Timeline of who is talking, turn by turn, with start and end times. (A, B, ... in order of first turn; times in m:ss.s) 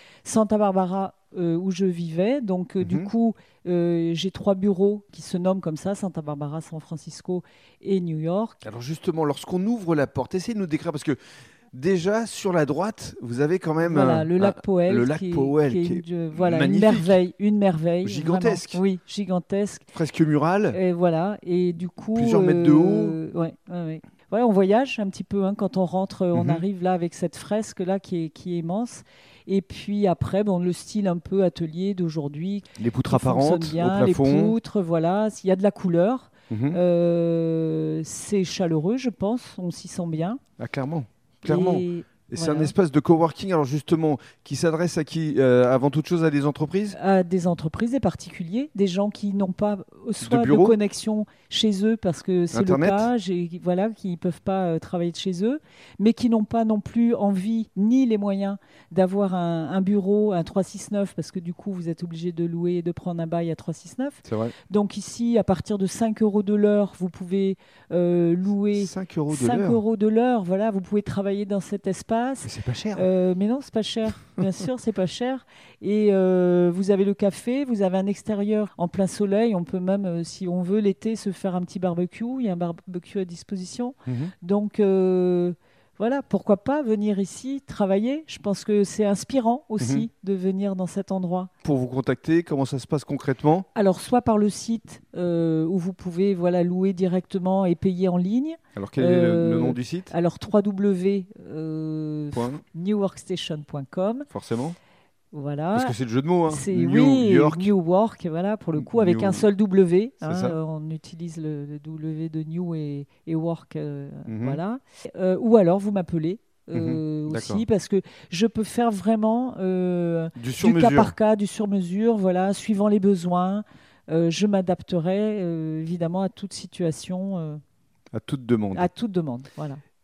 0:00.2-0:08.6 A
0:02.8-0:03.1 B
0:08.6-0:11.2 B
0:11.7-0:17.2 B
0:13.8-0:19.9 A
0:18.0-0:18.8 B
0:19.9-0:20.8 B
0:20.7-0:40.4 A
0:22.1-0:23.2 B
0:26.3-0:26.6 B
0:32.8-0:34.6 B
0:36.5-0:36.8 B
0:40.6-0:47.0 B
0:41.4-0:42.7 A
0:46.9-1:31.5 A
0:50.2-0:50.8 B
0:52.5-0:53.1 B
1:04.2-1:04.5 B
1:08.8-1:09.8 B
1:12.4-1:13.0 B
1:24.0-1:24.3 B
1:29.8-1:30.0 B
1:31.6-1:33.7 B
1:33.7-1:44.3 A
1:38.8-1:40.1 B
1:42.3-1:42.6 B
1:44.3-1:44.8 B
1:45.3-1:45.9 A
1:45.7-1:47.7 B
1:46.5-2:07.6 A
1:48.8-1:49.5 B
1:50.2-1:50.6 B
1:54.3-1:54.6 B
1:56.7-1:57.6 B
2:00.4-2:01.1 B
2:08.1-2:08.9 B
2:08.7-2:09.8 A